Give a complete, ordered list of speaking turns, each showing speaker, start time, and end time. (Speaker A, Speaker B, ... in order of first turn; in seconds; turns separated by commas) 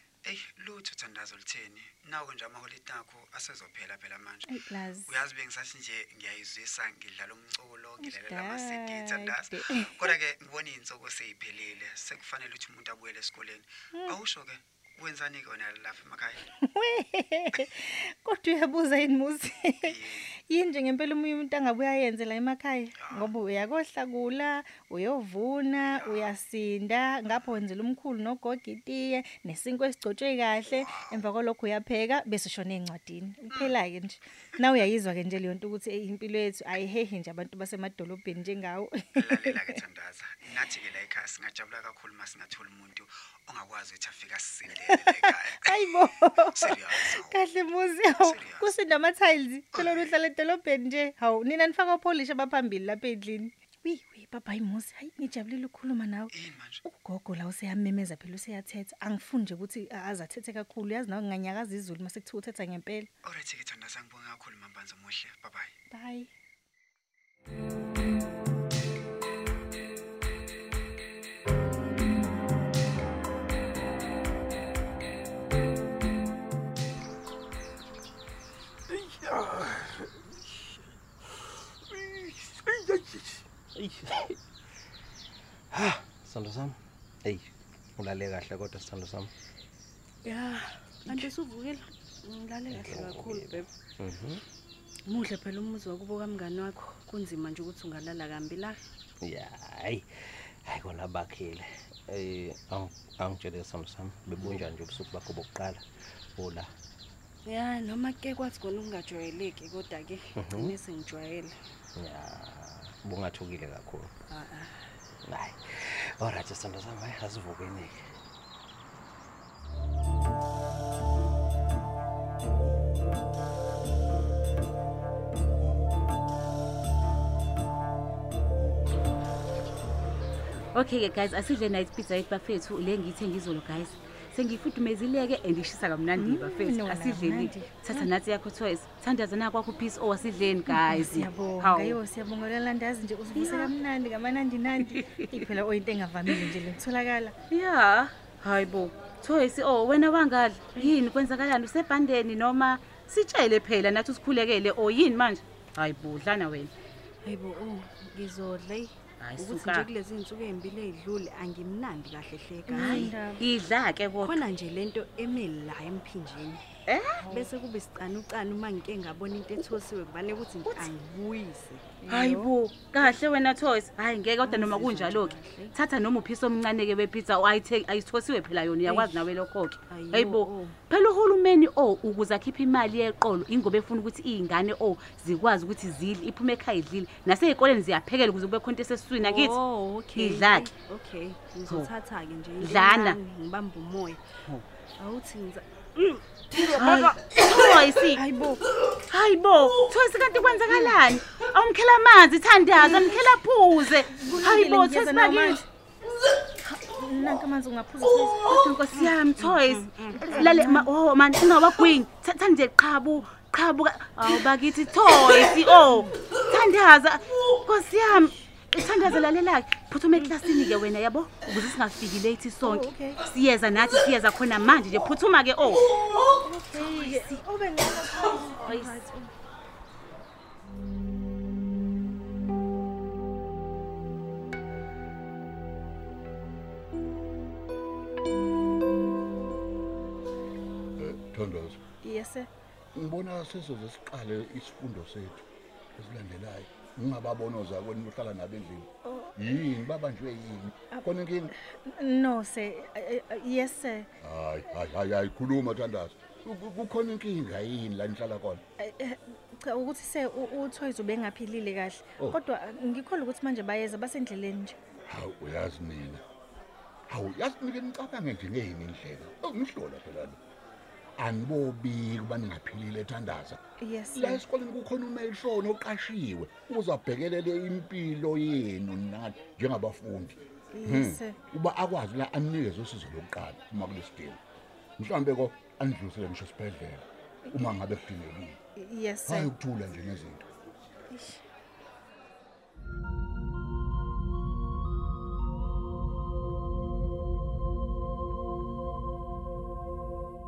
Speaker A: 0.2-4.5, Speaker B: 4.5-5.1, Speaker A: 5.1-16.4, Speaker B: 8.0-10.1, Speaker B: 16.5-39.8, Speaker A: 19.8-20.3, Speaker A: 23.0-23.3, Speaker A: 25.9-26.3, Speaker A: 30.8-31.1, Speaker A: 39.1-47.4, Speaker B: 44.9-63.1, Speaker A: 48.1-48.8, Speaker A: 49.7-50.1, Speaker A: 56.3-56.8, Speaker A: 63.2-65.7, Speaker B: 65.9-66.3, Speaker C: 78.9-80.3, Speaker C: 81.9-84.4, Speaker C: 85.7-89.3, Speaker D: 90.2-93.7, Speaker C: 92.7-94.4, Speaker D: 95.1-98.8, Speaker C: 99.2-105.8, Speaker C: 106.3-106.7, Speaker D: 107.5-111.5, Speaker C: 110.4-110.8, Speaker C: 112.0-114.1, Speaker D: 114.3-114.7, Speaker C: 115.2-118.0, Speaker E: 130.7-142.0, Speaker B: 136.2-138.1, Speaker B: 140.7-147.3, Speaker E: 143.3-143.7, Speaker E: 144.8-145.4, Speaker E: 147.5-156.7, Speaker D: 157.2-163.1, Speaker E: 159.2-159.9, Speaker B: 162.7-163.4, Speaker E: 162.8-164.4, Speaker D: 164.2-166.6, Speaker E: 166.9-167.2, Speaker D: 167.3-172.0, Speaker E: 170.6-170.9, Speaker B: 172.0-172.5, Speaker E: 172.1-189.6, Speaker D: 174.4-175.7, Speaker D: 178.8-179.2, Speaker D: 179.9-180.8, Speaker D: 189.2-194.2, Speaker E: 190.2-190.7, Speaker E: 192.6-193.2, Speaker D: 195.0-197.2, Speaker E: 196.6-198.2, Speaker B: 198.1-198.6, Speaker E: 199.1-205.6, Speaker B: 200.6-200.9, Speaker B: 202.7-203.2, Speaker B: 204.1-205.7, Speaker B: 206.6-208.4, Speaker E: 208.4-226.2, Speaker D: 208.9-210.3, Speaker B: 210.1-210.9, Speaker B: 222.6-223.2, Speaker B: 226.3-229.3, Speaker E: 226.8-227.4, Speaker E: 228.5-229.0, Speaker F: 241.0-241.8, Speaker B: 242.0-242.5, Speaker F: 242.9-245.4, Speaker F: 245.9-251.5, Speaker B: 249.0-249.3, Speaker B: 250.9-254.1, Speaker F: 254.2-258.6, Speaker B: 258.8-264.8, Speaker F: 265.1-266.2, Speaker F: 267.1-270.4, Speaker F: 271.2-273.6, Speaker B: 273.8-274.4, Speaker F: 274.1-284.4, Speaker B: 280.7-281.4, Speaker F: 285.0-288.6, Speaker B: 288.8-289.5, Speaker F: 289.2-290.4, Speaker B: 291.1-291.4